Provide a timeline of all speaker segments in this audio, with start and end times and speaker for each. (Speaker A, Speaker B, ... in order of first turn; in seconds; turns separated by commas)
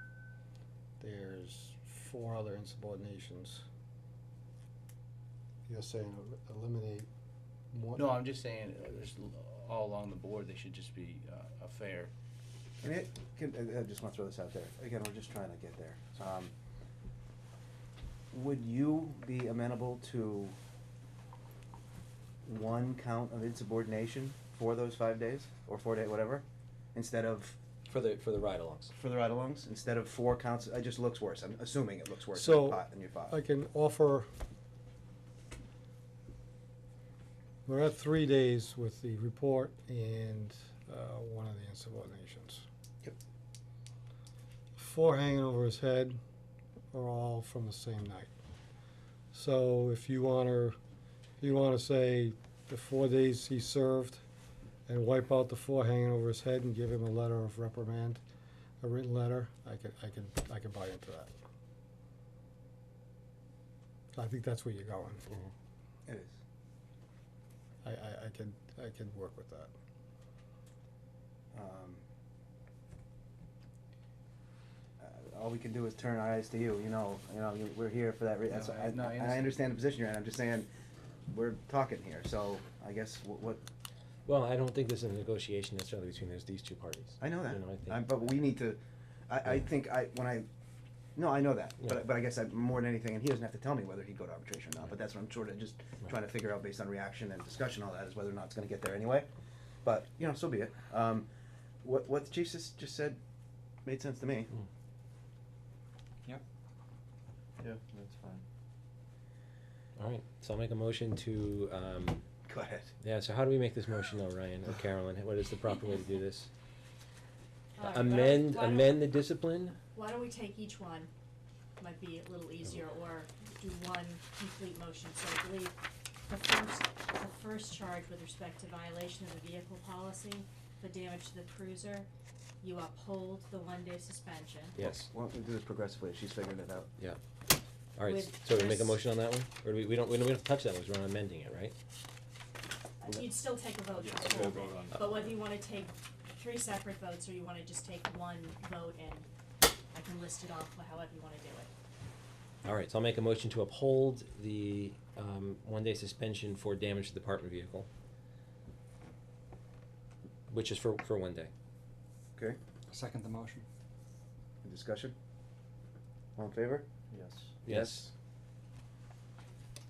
Speaker A: 1.0-3.6, Speaker A: 5.7-7.1, Speaker A: 7.7-8.2, Speaker B: 8.0-12.1, Speaker C: 12.8-16.5, Speaker C: 18.3-20.6, Speaker C: 22.4-27.6, Speaker D: 27.9-28.9, Speaker C: 28.9-33.4, Speaker A: 32.3-34.3, Speaker A: 37.6-42.6, Speaker A: 44.8-46.2, Speaker A: 46.9-48.3, Speaker A: 49.3-50.8, Speaker A: 51.4-54.2, Speaker A: 54.9-58.2, Speaker A: 58.8-61.3, Speaker A: 64.1-65.2, Speaker C: 66.0-66.4, Speaker A: 67.8-69.7, Speaker C: 71.5-72.0, Speaker C: 75.0-80.7, Speaker B: 78.5-79.6, Speaker C: 81.3-83.6, Speaker D: 84.2-88.3, Speaker C: 87.2-90.5, Speaker C: 91.2-99.3, Speaker C: 99.8-101.3, Speaker C: 101.8-103.2, Speaker C: 103.8-104.5, Speaker E: 107.6-108.4, Speaker D: 110.0-112.2, Speaker C: 112.5-112.9, Speaker D: 113.0-116.5, Speaker F: 117.8-119.0, Speaker D: 117.8-119.8, Speaker F: 119.9-121.1, Speaker F: 121.8-132.1, Speaker F: 132.6-134.8, Speaker D: 134.8-135.1, Speaker C: 134.8-136.9, Speaker D: 138.0-141.8, Speaker F: 138.0-139.0, Speaker F: 143.0-149.3, Speaker E: 143.9-145.3, Speaker F: 149.9-151.7, Speaker D: 152.6-157.9, Speaker D: 160.5-161.5, Speaker B: 162.9-163.7, Speaker C: 164.6-165.2, Speaker C: 166.3-166.9, Speaker E: 167.1-167.5, Speaker D: 167.6-168.1, Speaker C: 167.7-168.1